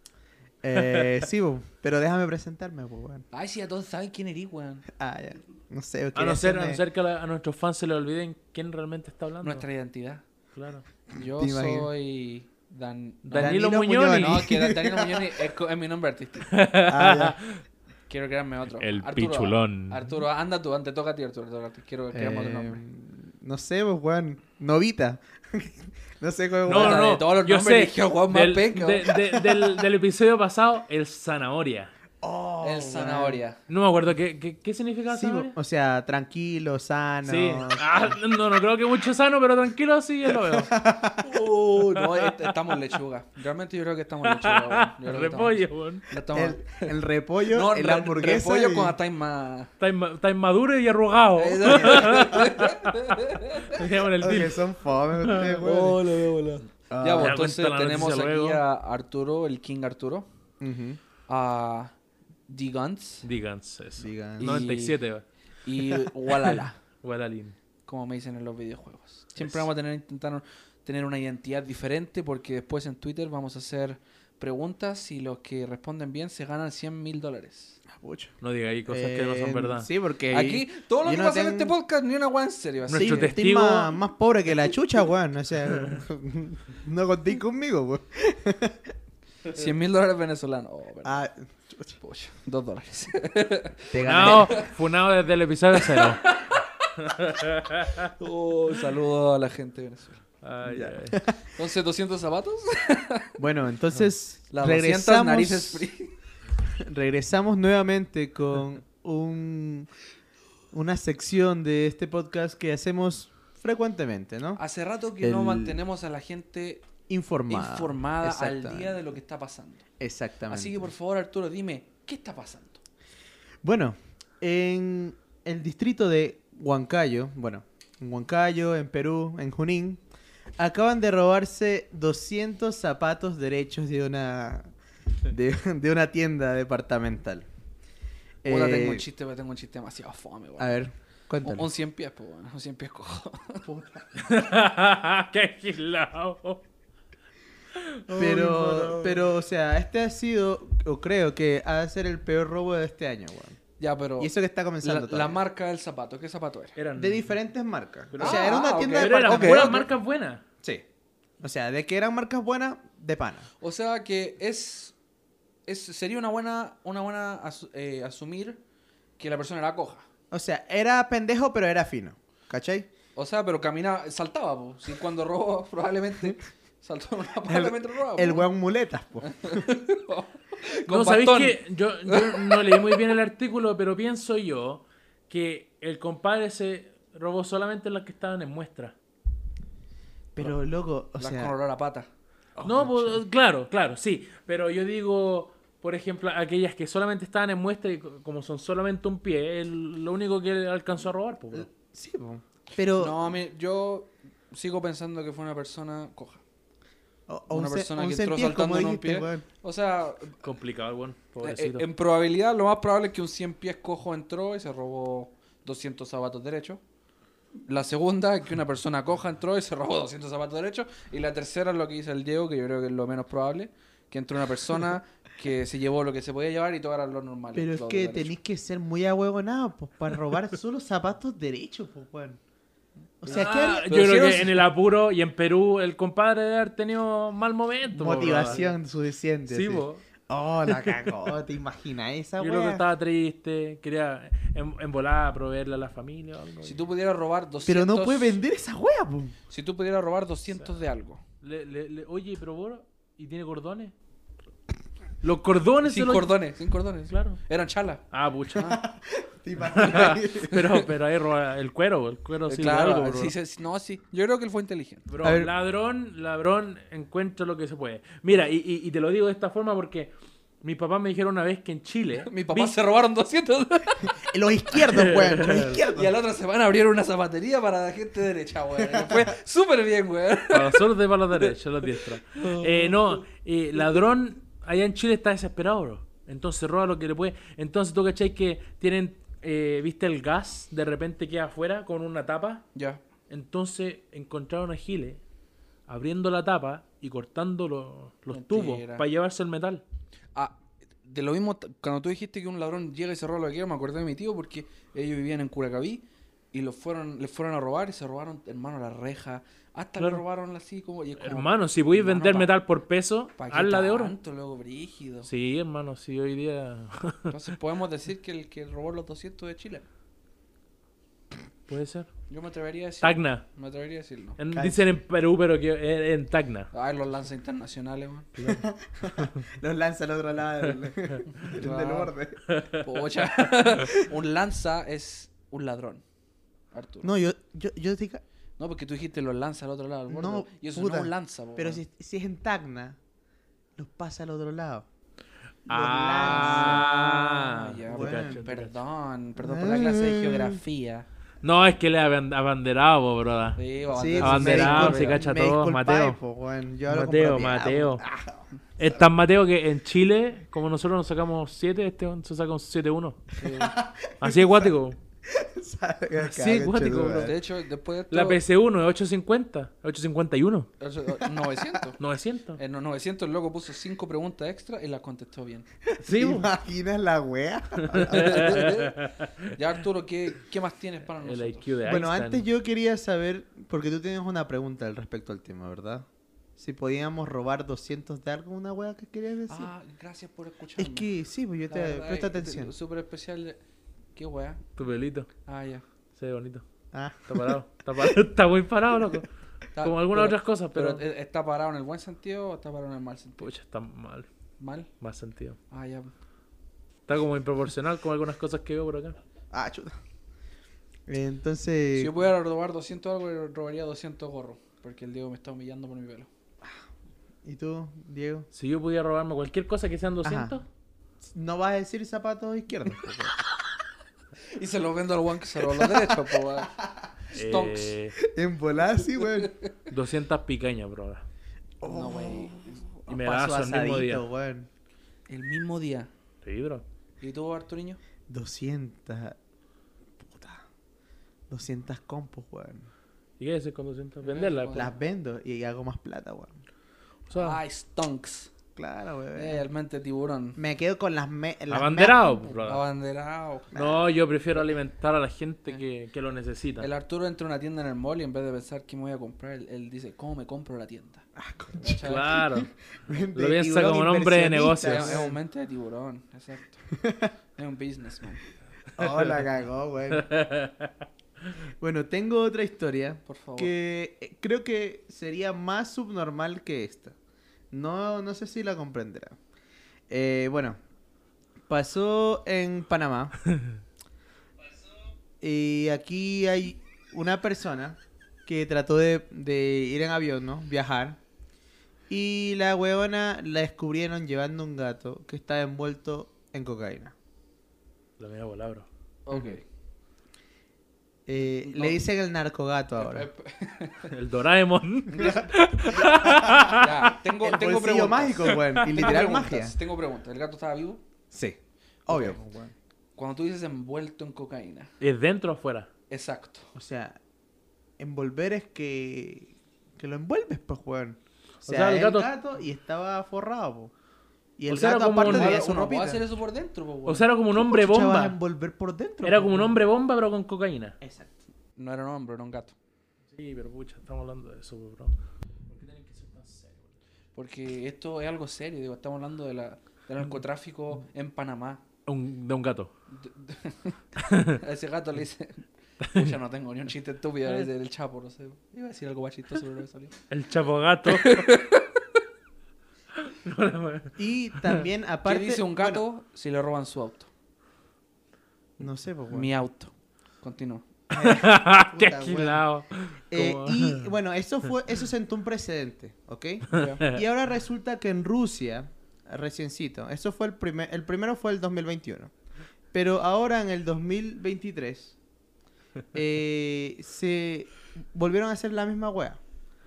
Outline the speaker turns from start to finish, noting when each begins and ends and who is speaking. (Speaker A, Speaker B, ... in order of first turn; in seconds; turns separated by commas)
Speaker A: 0.6-3.2, Speaker B: 3.3-4.9, Speaker A: 4.9-6.8, Speaker C: 6.2-9.7, Speaker B: 9.4-10.2, Speaker C: 10.5-10.9, Speaker A: 11.2-11.9, Speaker B: 11.2-16.5, Speaker C: 13.2-14.6, Speaker A: 13.3-15.3, Speaker C: 16.5-17.6, Speaker A: 16.9-17.4, Speaker B: 18.1-22.8, Speaker C: 18.8-20.2, Speaker A: 22.1-27.2, Speaker C: 26.6-31.9, Speaker B: 26.7-29.2, Speaker A: 32.2-33.4, Speaker B: 32.6-33.6, Speaker C: 33.7-35.5, Speaker A: 35.1-38.1, Speaker C: 37.3-40.7, Speaker A: 40.4-41.2, Speaker B: 41.2-46.9, Speaker C: 42.0-42.3, Speaker C: 44.3-46.0, Speaker A: 46.3-49.0, Speaker B: 47.5-49.7, Speaker C: 49.8-54.6, Speaker B: 51.4-53.8, Speaker A: 54.2-56.0, Speaker C: 55.2-55.6, Speaker B: 55.6-60.3, Speaker A: 56.9-57.4, Speaker C: 57.1-58.6, Speaker A: 60.6-61.0, Speaker B: 61.3-62.0, Speaker B: 62.5-63.3, Speaker C: 63.2-65.2, Speaker A: 64.0-64.7, Speaker B: 64.4-65.0, Speaker B: 65.6-66.8, Speaker C: 66.4-67.5, Speaker B: 67.8-77.8, Speaker A: 77.9-78.3, Speaker C: 78.4-79.9, Speaker A: 78.9-81.7, Speaker B: 80.3-83.4, Speaker C: 82.9-84.0, Speaker A: 82.9-88.9, Speaker B: 89.5-91.2, Speaker A: 91.0-92.0, Speaker B: 92.0-94.7, Speaker A: 93.9-94.6, Speaker C: 94.0-96.4, Speaker B: 95.8-97.3, Speaker C: 97.0-98.1, Speaker B: 98.0-100.2, Speaker C: 100.4-101.2, Speaker A: 100.7-101.4, Speaker B: 101.5-103.4, Speaker A: 103.4-105.9, Speaker B: 104.5-106.1, Speaker A: 106.8-109.9, Speaker A: 110.7-114.6, Speaker B: 114.6-116.9, Speaker A: 115.2-115.8, Speaker A: 117.1-119.1, Speaker B: 117.5-119.9, Speaker A: 120.0-120.8, Speaker B: 120.5-122.8, Speaker A: 123.6-130.0, Speaker A: 130.6-134.7, Speaker A: 135.2-137.5, Speaker A: 138.4-139.1, Speaker B: 138.5-140.8, Speaker A: 140.6-141.7, Speaker B: 141.4-143.6, Speaker A: 143.7-144.1, Speaker C: 144.2-146.6, Speaker C: 147.8-149.3, Speaker A: 148.1-153.6, Speaker B: 153.8-156.8, Speaker A: 154.2-155.4, Speaker C: 156.8-157.3, Speaker A: 156.9-159.9, Speaker C: 158.1-160.4, Speaker B: 158.2-159.8, Speaker A: 161.4-163.5, Speaker B: 163.6-164.9, Speaker B: 165.7-168.6, Speaker B: 169.2-170.1, Speaker A: 170.3-172.9, Speaker B: 173.2-178.5, Speaker A: 177.5-179.7, Speaker B: 179.2-183.1, Speaker C: 180.9-188.9, Speaker A: 190.3-191.5, Speaker B: 191.2-192.1, Speaker A: 192.6-193.2, Speaker C: 192.6-201.7, Speaker A: 201.5-203.2, Speaker B: 203.0-206.4, Speaker A: 207.3-209.4, Speaker B: 207.5-210.4, Speaker C: 210.4-211.8, Speaker B: 211.4-216.8, Speaker B: 217.7-228.3, Speaker A: 227.5-232.4, Speaker A: 233.2-233.9, Speaker B: 233.2-234.7, Speaker C: 233.3-238.7, Speaker A: 237.9-242.8, Speaker B: 238.5-238.7, Speaker C: 239.5-240.0, Speaker C: 242.4-246.8, Speaker B: 246.6-248.4, Speaker A: 247.7-249.3, Speaker B: 249.5-251.2, Speaker C: 251.4-253.9, Speaker C: 255.2-256.4, Speaker B: 255.8-258.8, Speaker C: 257.1-257.4, Speaker C: 258.1-258.8, Speaker A: 258.6-260.6, Speaker C: 259.6-263.3, Speaker B: 260.5-260.8, Speaker B: 262.5-265.1, Speaker C: 265.1-272.7, Speaker A: 265.2-265.5, Speaker B: 272.2-274.1, Speaker A: 274.2-276.1, Speaker C: 274.8-275.8, Speaker B: 275.9-280.9, Speaker A: 278.9-279.2, Speaker C: 280.5-292.6, Speaker B: 282.3-283.2, Speaker B: 292.8-293.0, Speaker C: 293.3-295.2, Speaker C: 295.9-299.8, Speaker B: 298.3-299.0, Speaker B: 300.3-312.5, Speaker C: 310.0-310.2, Speaker C: 311.2-314.1, Speaker B: 313.4-315.3, Speaker C: 315.2-317.3, Speaker B: 317.3-319.9, Speaker C: 321.7-322.1, Speaker B: 322.3-324.4, Speaker C: 323.0-323.4, Speaker C: 324.4-326.7, Speaker A: 324.5-324.9, Speaker B: 326.7-328.3, Speaker C: 328.4-328.6, Speaker A: 328.4-332.4, Speaker C: 329.2-329.4, Speaker B: 331.4-332.1, Speaker C: 332.5-332.8, Speaker B: 332.8-336.0, Speaker B: 336.7-337.1, Speaker A: 337.0-338.2, Speaker B: 338.6-341.8, Speaker A: 340.1-343.0, Speaker A: 343.8-344.9, Speaker A: 345.7-347.3, Speaker C: 345.7-348.8, Speaker B: 346.2-351.1, Speaker A: 347.9-348.4, Speaker A: 349.4-350.6, Speaker C: 351.4-353.6, Speaker B: 353.6-355.2, Speaker A: 353.9-359.0, Speaker C: 354.2-356.2, Speaker C: 356.9-358.0, Speaker C: 358.8-363.3, Speaker B: 363.4-363.8, Speaker A: 363.4-364.7, Speaker C: 364.2-365.0, Speaker A: 365.2-367.4, Speaker C: 366.2-367.3, Speaker B: 367.1-368.4, Speaker C: 368.1-370.7, Speaker B: 370.8-372.0, Speaker A: 371.4-371.8, Speaker C: 372.0-372.6, Speaker B: 372.6-375.7, Speaker A: 375.9-378.7, Speaker C: 376.0-376.5, Speaker C: 377.8-379.2, Speaker B: 378.1-381.7, Speaker C: 381.2-382.4, Speaker A: 381.8-386.1, Speaker A: 386.6-389.7, Speaker B: 389.5-391.1, Speaker A: 390.8-392.7, Speaker B: 391.7-393.6, Speaker B: 394.1-394.6, Speaker C: 394.8-395.3, Speaker B: 395.4-395.8, Speaker C: 396.1-396.6, Speaker A: 396.9-397.5, Speaker C: 397.3-399.3, Speaker B: 399.8-403.5, Speaker C: 399.8-401.0, Speaker C: 403.4-404.3, Speaker B: 404.6-404.9, Speaker C: 405.0-405.6, Speaker B: 405.7-406.1, Speaker C: 407.1-409.2, Speaker A: 409.5-410.0, Speaker A: 411.1-412.1, Speaker B: 411.9-416.3, Speaker A: 417.4-418.5, Speaker C: 418.5-420.6, Speaker A: 420.2-420.6, Speaker A: 421.2-423.4, Speaker B: 424.5-426.8, Speaker A: 425.8-427.1, Speaker B: 427.3-427.9, Speaker C: 427.3-428.1, Speaker A: 428.2-429.5, Speaker B: 429.2-429.8, Speaker C: 429.9-431.2, Speaker A: 431.8-434.7, Speaker B: 431.8-432.8, Speaker C: 433.1-434.2, Speaker B: 435.3-436.1, Speaker C: 436.4-436.8, Speaker B: 437.2-438.0, Speaker A: 438.3-439.4, Speaker A: 440.2-440.6, Speaker A: 441.5-442.9, Speaker C: 443.4-444.8, Speaker B: 444.2-445.0, Speaker A: 444.7-446.6, Speaker C: 447.3-447.6, Speaker B: 447.3-448.5, Speaker A: 448.8-449.6, Speaker B: 449.3-450.6, Speaker A: 450.6-452.4, Speaker C: 451.7-452.8, Speaker B: 452.6-453.8, Speaker C: 453.7-456.9, Speaker A: 453.8-454.0, Speaker B: 456.8-462.3, Speaker A: 461.4-465.4, Speaker C: 462.0-462.7, Speaker C: 463.3-465.2, Speaker B: 464.8-466.9, Speaker A: 466.9-467.3, Speaker B: 467.5-468.5, Speaker A: 468.9-470.3, Speaker C: 470.1-470.9, Speaker A: 471.8-477.1, Speaker B: 473.2-473.7, Speaker A: 477.7-479.4, Speaker A: 480.1-480.8, Speaker A: 481.7-483.4, Speaker A: 485.4-491.2, Speaker A: 492.1-497.1, Speaker C: 498.2-498.9, Speaker B: 499.2-499.6, Speaker A: 501.2-503.3, Speaker B: 501.6-502.0, Speaker B: 502.9-504.1, Speaker C: 504.1-506.9, Speaker B: 505.1-506.1, Speaker A: 506.2-506.8, Speaker B: 506.7-511.0, Speaker A: 507.4-509.8, Speaker C: 508.4-509.1, Speaker A: 511.3-512.7, Speaker B: 512.1-512.4, Speaker B: 513.1-514.9, Speaker C: 515.0-515.9, Speaker B: 516.1-516.7, Speaker A: 516.8-517.2, Speaker A: 518.0-523.9, Speaker C: 521.6-522.3, Speaker A: 524.6-526.2, Speaker C: 524.7-525.7, Speaker B: 525.2-527.3, Speaker C: 527.0-528.4, Speaker A: 527.5-529.8, Speaker C: 529.2-531.0, Speaker A: 531.0-531.4, Speaker B: 531.8-532.8, Speaker C: 533.3-535.1, Speaker C: 535.7-537.0, Speaker B: 537.4-541.8, Speaker C: 542.0-542.9, Speaker B: 543.1-550.1, Speaker C: 544.3-544.6, Speaker C: 546.0-546.4, Speaker C: 550.3-551.5, Speaker B: 551.1-552.0, Speaker C: 553.2-554.9, Speaker A: 554.2-556.0, Speaker B: 555.2-557.3, Speaker A: 558.8-559.5, Speaker B: 559.3-560.9, Speaker A: 561.1-562.6, Speaker C: 561.1-564.1, Speaker A: 563.3-572.3, Speaker B: 566.7-567.0, Speaker C: 566.7-567.2, Speaker A: 572.9-575.1, Speaker A: 576.1-579.4